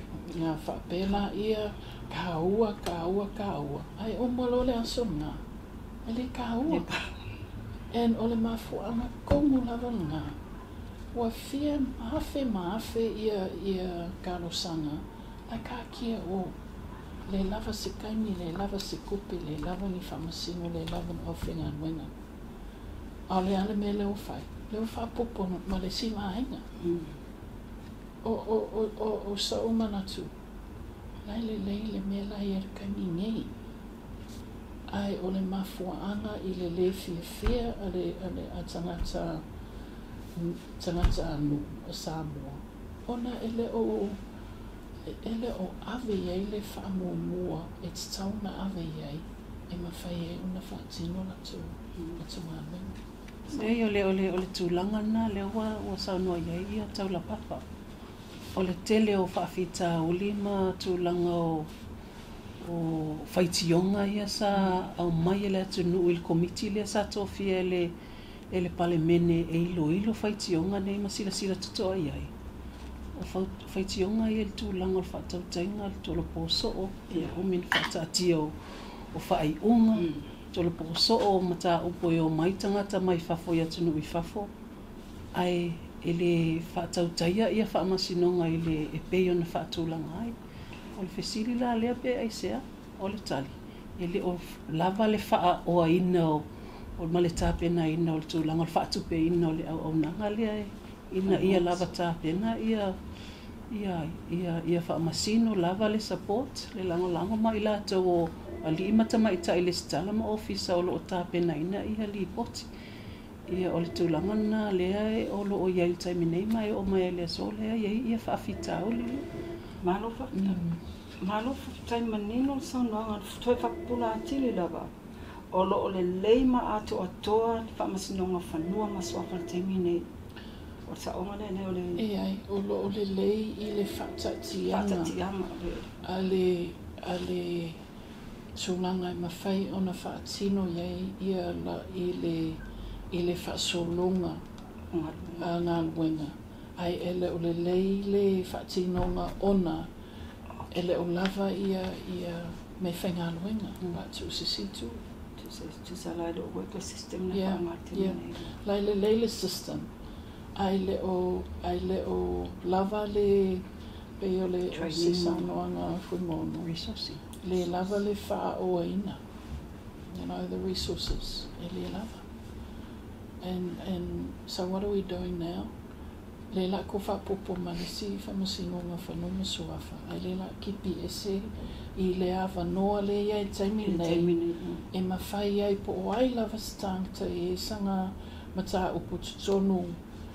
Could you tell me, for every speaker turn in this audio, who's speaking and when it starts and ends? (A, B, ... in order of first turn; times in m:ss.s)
0:00.2-0:05.4 A
0:06.1-0:06.9 A
0:07.9-0:10.4 A
0:11.1-0:16.6 A
0:17.3-0:22.1 A
0:23.3-0:26.7 A
0:28.2-0:30.3 A
0:31.2-0:33.5 A
0:34.9-0:39.4 A
0:40.4-0:44.2 A
0:45.1-0:53.0 A
0:53.5-0:57.6 B
0:58.6-1:01.7 B
1:02.6-1:07.9 B
1:08.5-1:12.3 B
1:13.1-1:18.5 B
1:19.1-1:24.5 B
1:25.3-1:30.4 B
1:30.9-1:36.5 B
1:37.0-1:43.0 B
1:41.3-1:41.8 C
1:43.7-1:52.7 B
1:53.5-1:59.3 B
1:59.8-2:00.6 C
2:00.4-2:00.8 B
2:01.2-2:04.9 C
2:05.5-2:10.0 C
2:10.9-2:12.0 C
2:12.0-2:15.1 A
2:14.7-2:15.9 C
2:16.0-2:17.8 A
2:18.6-2:22.6 A
2:23.1-2:24.4 A
2:24.9-2:25.5 C
2:25.4-2:29.9 A
2:30.7-2:35.0 A
2:35.4-2:38.5 C
2:37.3-2:39.9 A
2:40.6-2:43.7 A
2:44.2-2:46.7 A
2:44.7-2:45.5 C
2:46.7-2:47.2 B
2:47.4-2:49.2 A
2:50.1-2:52.2 A
2:53.4-2:55.7 A
2:56.5-3:04.4 A
3:03.8-3:04.8 C
3:04.9-3:10.0 A